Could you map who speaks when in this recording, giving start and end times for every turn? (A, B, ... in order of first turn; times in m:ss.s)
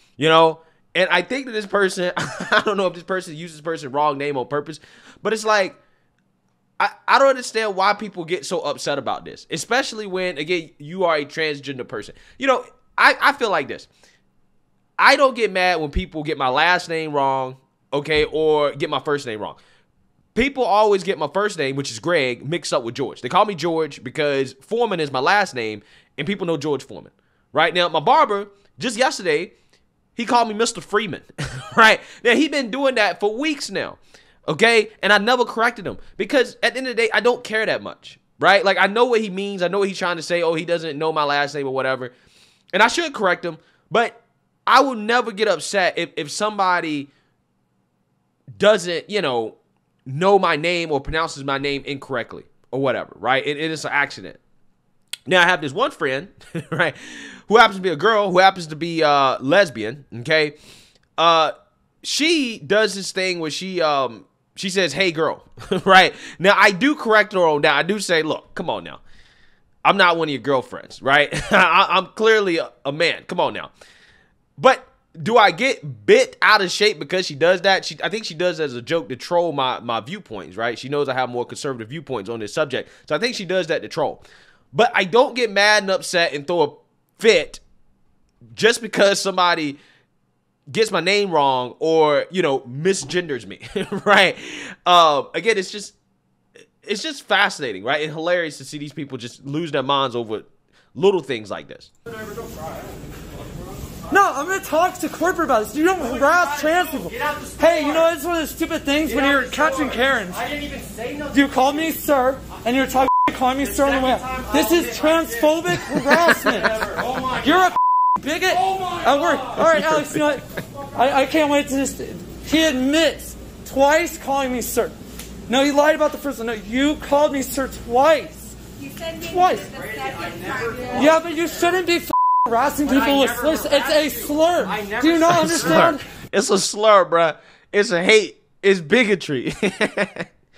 0:00.2-0:05.8 A
0:06.8-0:13.9 A
0:15.0-0:19.6 A
0:20.4-0:29.5 A
0:30.2-0:42.1 A
0:42.7-0:47.1 A
0:48.6-0:54.4 A
0:55.3-1:00.6 A
1:01.2-1:09.0 A
1:09.8-1:13.7 A
1:14.6-1:27.6 A
1:28.5-1:29.8 A
1:30.7-1:36.0 A
1:36.8-1:41.9 A
1:42.2-1:42.9 B
1:44.1-1:50.4 C
1:46.2-1:48.1 B
1:49.2-1:51.4 B
1:51.3-2:05.0 C
1:53.7-1:55.5 B
1:56.6-1:57.5 B
1:58.6-1:59.6 B
1:59.6-2:00.2 A
2:05.5-2:08.6 C
2:08.8-2:10.9 D
2:09.3-2:09.7 C
2:09.9-2:11.2 B
2:10.9-2:16.0 C
2:12.9-2:15.9 B
2:15.3-2:20.3 A